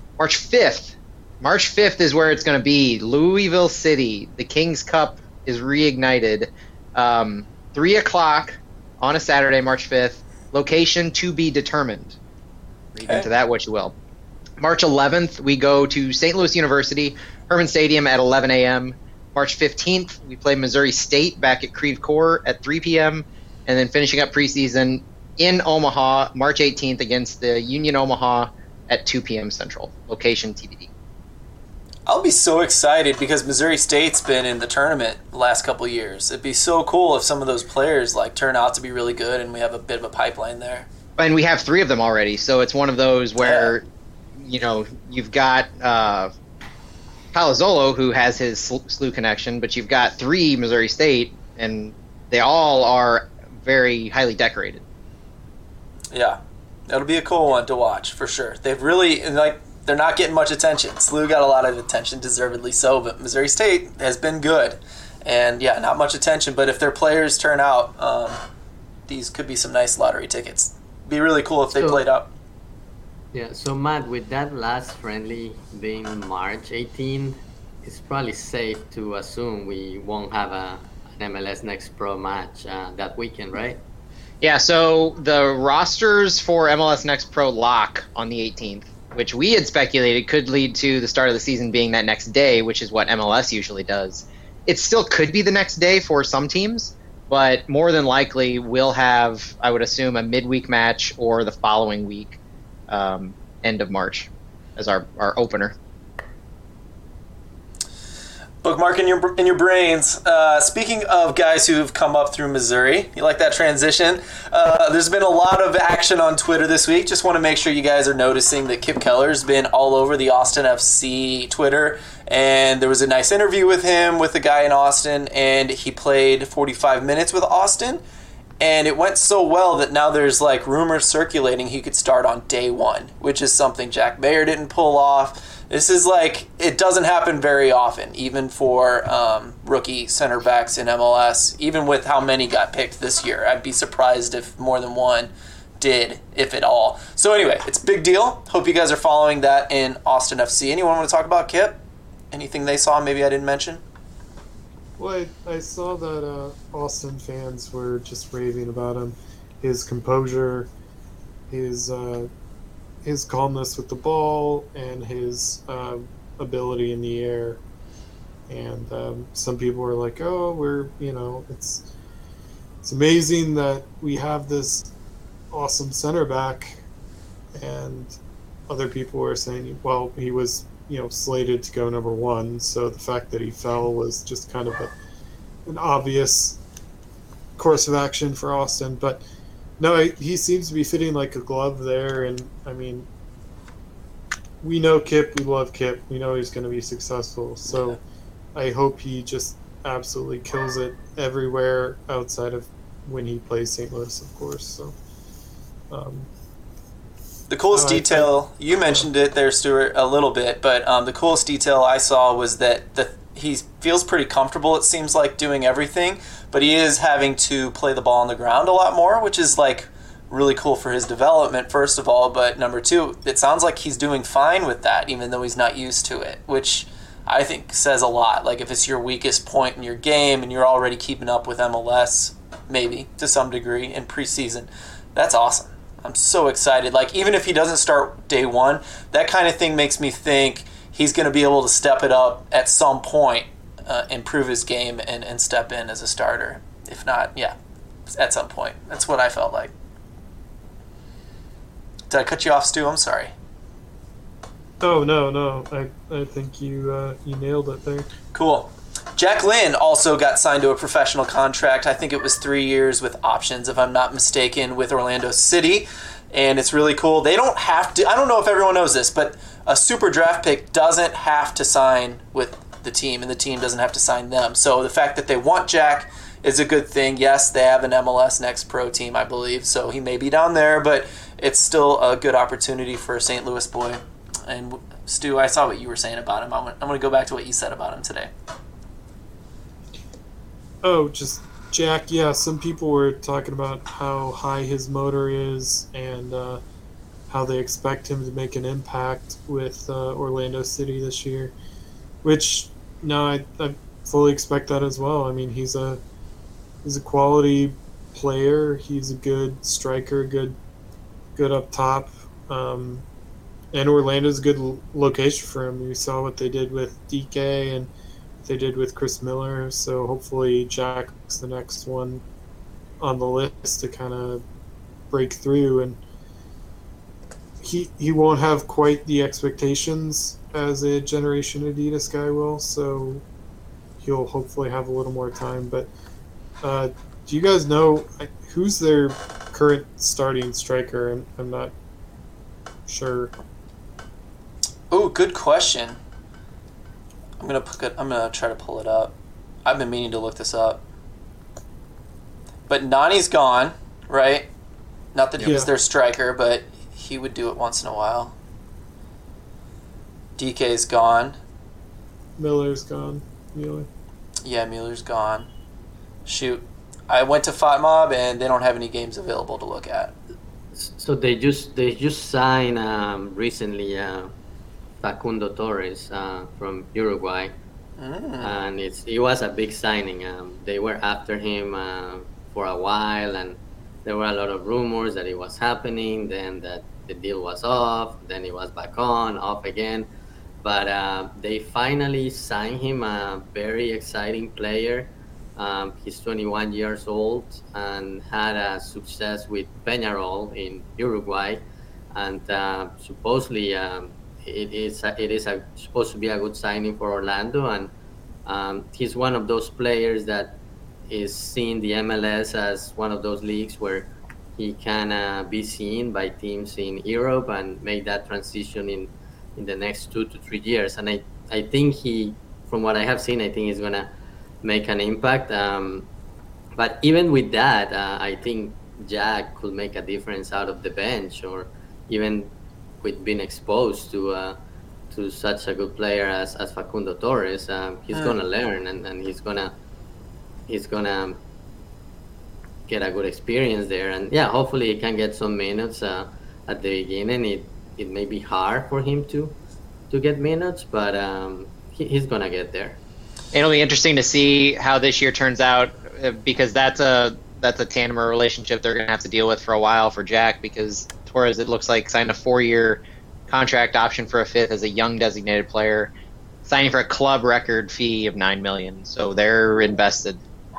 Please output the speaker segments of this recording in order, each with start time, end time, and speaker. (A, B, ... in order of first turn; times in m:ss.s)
0:00.2-0:12.2 A
0:13.0-0:14.0 A
0:13.0-0:13.3 B
0:14.6-0:30.9 A
0:32.1-0:40.9 B
0:41.2-0:43.8 A
0:43.4-0:43.7 B
0:44.4-0:46.3 A
0:47.3-0:54.8 A
0:56.1-1:08.4 B
1:09.1-1:12.3 B
1:11.7-1:12.0 C
1:13.3-1:23.8 C
1:24.4-1:42.4 A
1:42.9-1:45.8 A
1:48.6-2:08.0 B
2:08.6-2:31.8 B
2:32.3-2:33.8 B
2:35.0-2:40.7 D
2:41.5-2:42.3 D
2:43.0-2:47.6 D
2:48.5-2:51.8 D
2:52.8-2:54.9 D
2:55.5-2:56.8 D
2:57.6-2:58.1 D
2:58.7-3:04.9 D
3:05.7-3:06.6 D
3:07.6-3:09.2 D
3:09.8-3:13.1 D
3:14.6-3:18.0 D
3:17.7-3:18.0 B
3:18.6-3:25.0 D
3:25.9-3:26.3 D
3:27.5-4:07.6 B
3:27.7-3:28.3 D
4:08.1-4:09.7 B
4:12.1-4:13.3 B
4:14.8-4:18.1 D
4:18.3-4:48.3 B
4:50.8-4:56.6 D
4:57.3-5:01.5 D
5:02.2-5:06.0 D
5:06.8-5:10.6 D
5:11.4-5:13.0 D
5:13.7-5:17.9 D
5:18.4-5:22.2 D
5:23.0-5:24.4 D
5:25.1-5:26.0 D
5:27.6-5:33.2 D
5:34.0-5:35.9 D
5:36.6-5:41.7 D
5:42.9-5:43.3 D
5:44.9-5:46.0 B
5:47.4-5:50.8 B
5:52.7-5:54.5 B
5:55.1-5:58.3 B
5:55.4-5:55.7 D
6:00.4-6:01.4 B
6:02.4-6:03.9 D
6:04.4-6:05.5 B
6:06.3-6:10.1 B
6:10.7-6:14.3 C
6:15.0-6:17.6 C
6:18.0-6:18.5 B
6:18.4-6:30.1 C
6:30.6-6:47.9 C
6:48.5-7:04.1 C
7:04.6-7:06.1 C
7:06.8-7:14.6 C
7:15.1-7:19.8 C
7:20.7-7:21.4 C
7:22.9-7:29.6 C
7:30.1-7:33.0 C
7:33.5-7:46.1 A
7:46.7-7:50.4 A